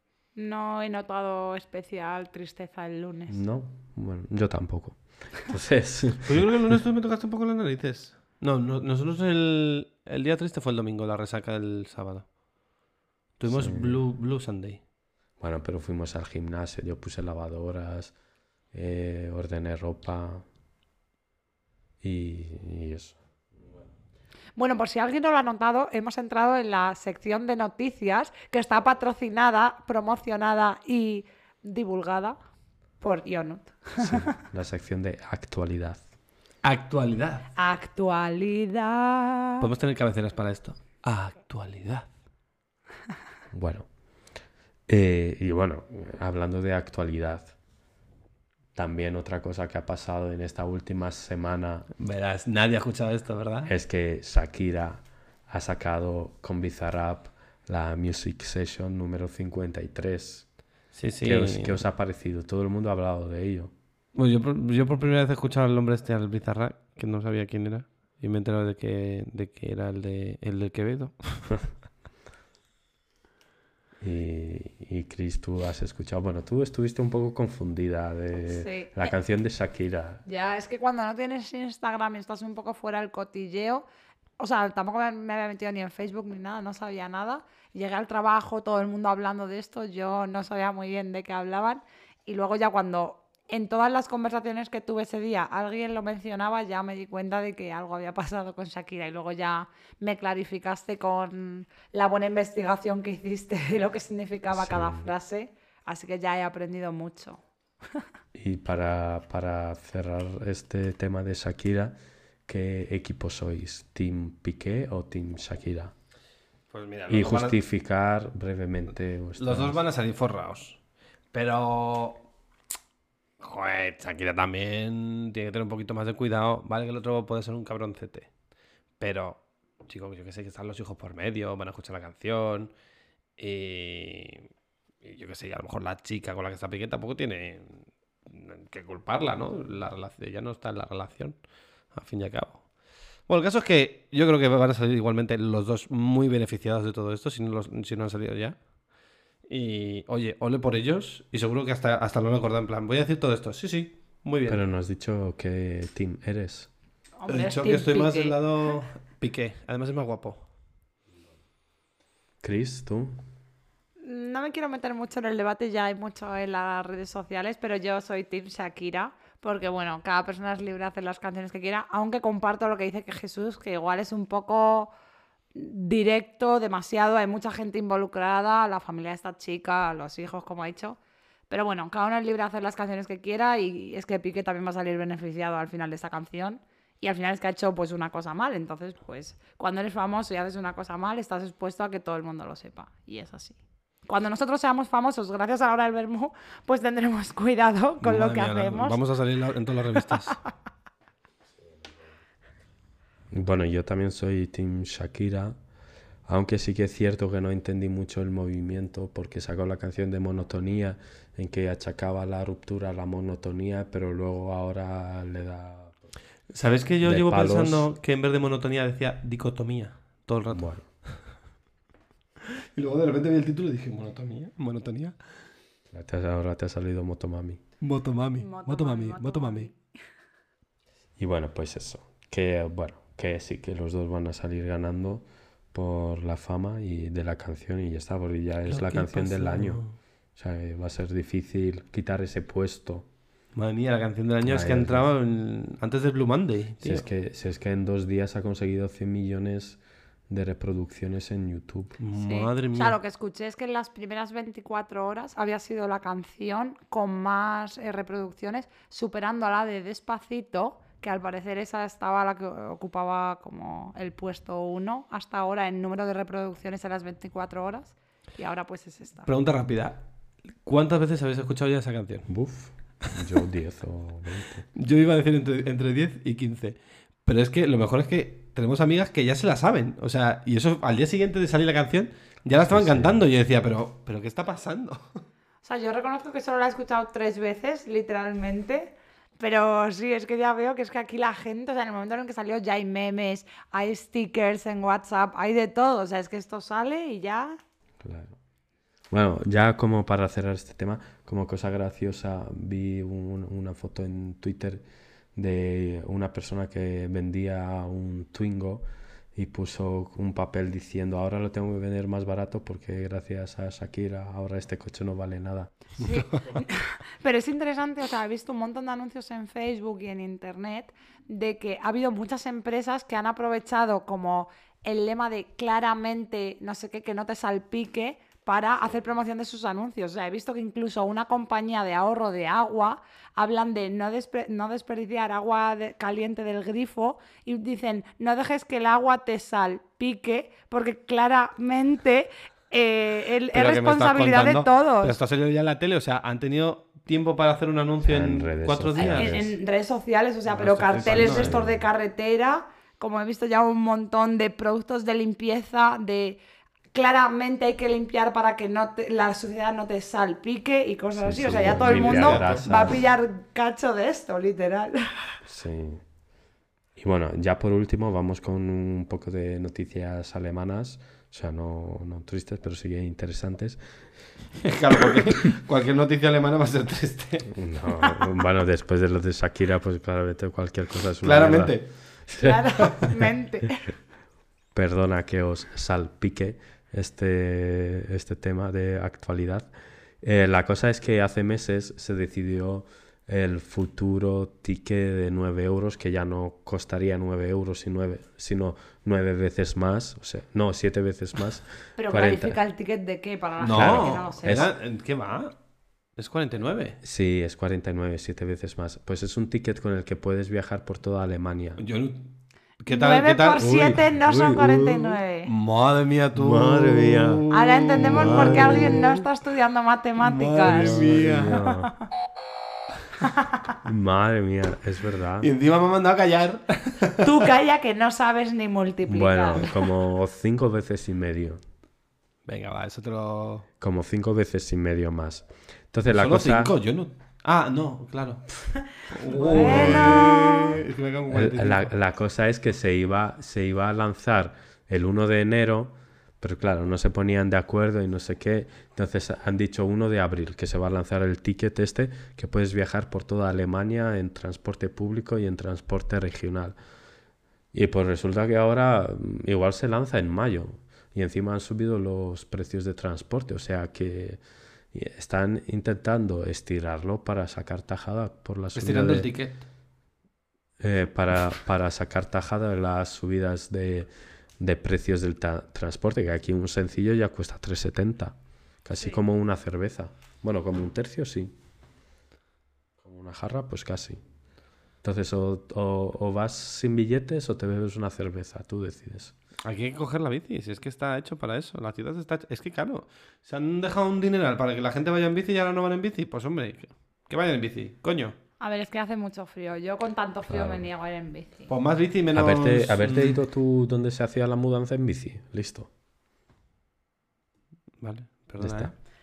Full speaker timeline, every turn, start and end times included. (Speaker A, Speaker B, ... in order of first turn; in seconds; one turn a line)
Speaker A: 0.4-3.4
Speaker B: 3.3-6.4
Speaker C: 6.2-12.3
Speaker C: 13.4-14.8
Speaker B: 13.5-14.0
Speaker B: 15.4-18.1
Speaker B: 18.7-20.4
Speaker B: 22.0-23.2
Speaker A: 24.6-32.4
Speaker A: 33.0-34.4
Speaker B: 34.0-36.0
Speaker C: 36.6-37.5
Speaker A: 37.6-39.7
Speaker C: 39.6-42.1
Speaker B: 43.5-43.9
Speaker B: 44.9-47.5
Speaker B: 48.8-51.9
Speaker C: 52.0-53.7
Speaker B: 53.6-60.5
Speaker C: 60.9-61.8
Speaker B: 61.2-63.7
Speaker C: 64.2-71.7
Speaker B: 74.0-80.2
Speaker A: 78.5-79.0
Speaker A: 80.3-83.8
Speaker A: 84.4-107.4
Speaker B: 104.5-105.1
Speaker B: 108.3-112.0
Speaker B: 112.5-115.9
Speaker C: 116.7-117.6
Speaker B: 117.1-119.8
Speaker C: 119.4-120.8
Speaker C: 121.3-122.3
Speaker C: 123.4-128.3
Speaker C: 129.0-132.7
Speaker C: 133.4-134.5
Speaker C: 135.0-141.4
Speaker C: 141.9-142.7
Speaker C: 143.3-148.6
Speaker C: 149.5-154.6
Speaker B: 154.5-156.7
Speaker A: 157.2-158.4
Speaker C: 157.3-160.4
Speaker B: 162.4-163.2
Speaker A: 164.0-174.9
Speaker A: 175.6-181.0
Speaker A: 181.5-199.0
Speaker C: 198.0-200.5
Speaker B: 203.3-205.6
Speaker B: 206.3-216.0
Speaker C: 216.5-221.2
Speaker B: 217.0-217.9
Speaker B: 220.5-220.9
Speaker C: 222.6-225.2
Speaker B: 225.9-227.6
Speaker C: 227.8-229.7
Speaker A: 228.4-229.8
Speaker B: 231.2-243.1
Speaker C: 238.7-239.9
Speaker C: 243.6-247.0
Speaker B: 244.4-245.0
Speaker B: 246.8-252.0
Speaker C: 252.0-253.0
Speaker A: 252.2-269.3
Speaker C: 269.3-270.0
Speaker C: 270.6-272.3
Speaker B: 272.3-274.7
Speaker C: 274.8-285.2
Speaker B: 282.6-283.2
Speaker A: 285.6-297.6
Speaker B: 298.0-298.4
Speaker B: 299.1-304.8
Speaker B: 305.4-315.9
Speaker A: 316.0-345.1
Speaker C: 343.6-349.5
Speaker B: 348.0-349.5
Speaker A: 349.0-356.4
Speaker C: 350.5-351.6
Speaker B: 351.0-351.8
Speaker A: 356.9-365.4
Speaker B: 361.2-363.0
Speaker C: 361.5-362.9
Speaker B: 365.5-366.0
Speaker B: 367.0-374.1
Speaker C: 374.6-377.5
Speaker B: 377.5-382.6
Speaker C: 381.2-381.9
Speaker A: 382.4-383.9
Speaker B: 384.7-389.7
Speaker B: 390.2-402.6
Speaker A: 402.0-404.7
Speaker C: 403.6-405.6
Speaker B: 403.8-404.7
Speaker C: 406.2-407.0
Speaker B: 407.0-411.8
Speaker C: 411.8-412.3
Speaker C: 412.8-419.2
Speaker A: 412.9-415.5
Speaker B: 416.4-417.4
Speaker A: 417.5-422.0
Speaker B: 418.0-419.1
Speaker C: 420.2-421.6
Speaker B: 420.6-421.9
Speaker A: 423.2-423.7
Speaker B: 423.8-425.5
Speaker C: 425.4-427.2
Speaker A: 427.2-429.7
Speaker B: 429.1-431.6
Speaker C: 432.5-433.7
Speaker B: 433.8-436.7
Speaker C: 436.1-441.9
Speaker A: 439.3-440.8
Speaker B: 439.5-440.3
Speaker B: 441.3-456.8
Speaker B: 457.7-464.4
Speaker B: 464.9-469.3
Speaker C: 468.8-469.6
Speaker B: 470.8-481.6
Speaker B: 483.0-484.2
Speaker B: 485.0-489.3
Speaker C: 489.6-498.4
Speaker A: 498.6-501.7
Speaker B: 500.5-500.9
Speaker C: 501.7-503.4
Speaker B: 502.3-505.9
Speaker C: 508.0-508.9
Speaker B: 508.6-508.9